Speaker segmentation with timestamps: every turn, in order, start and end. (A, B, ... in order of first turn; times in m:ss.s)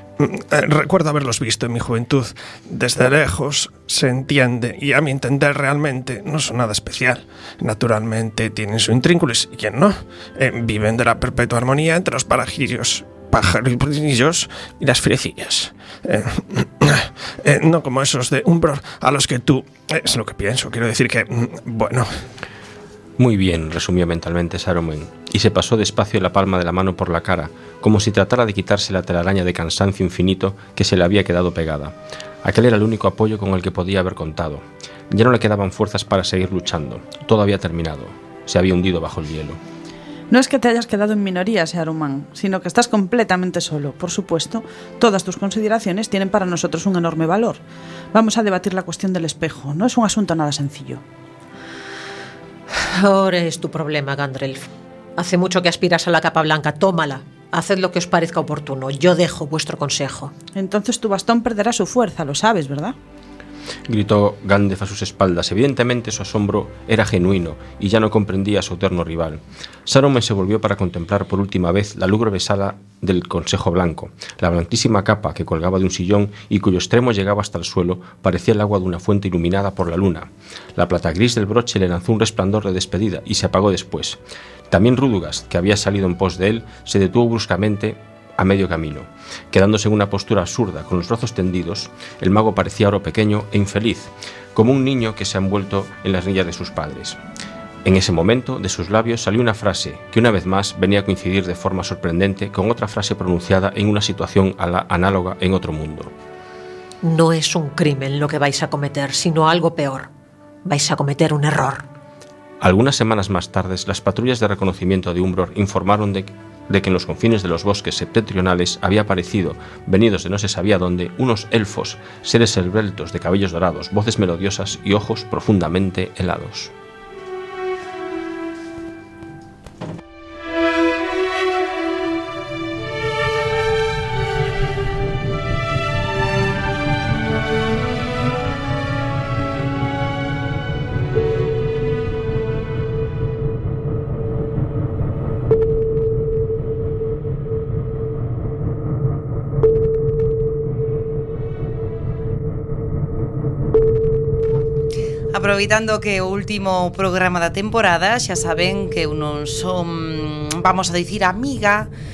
0:00.2-0:22.2 A
0:23.2-0:31.9 B
0:32.4-0:39.6 B
0:40.3-0:47.6 C
0:48.1-0:51.0 C
0:52.8-1:00.3 D
1:00.5-1:02.9 C
1:03.9-1:24.2 B
1:24.7-1:37.2 B
1:37.8-1:46.1 B
1:47.0-1:50.1 D
1:50.6-1:51.8 D
1:52.6-2:06.7 B
2:35.3-2:41.9 E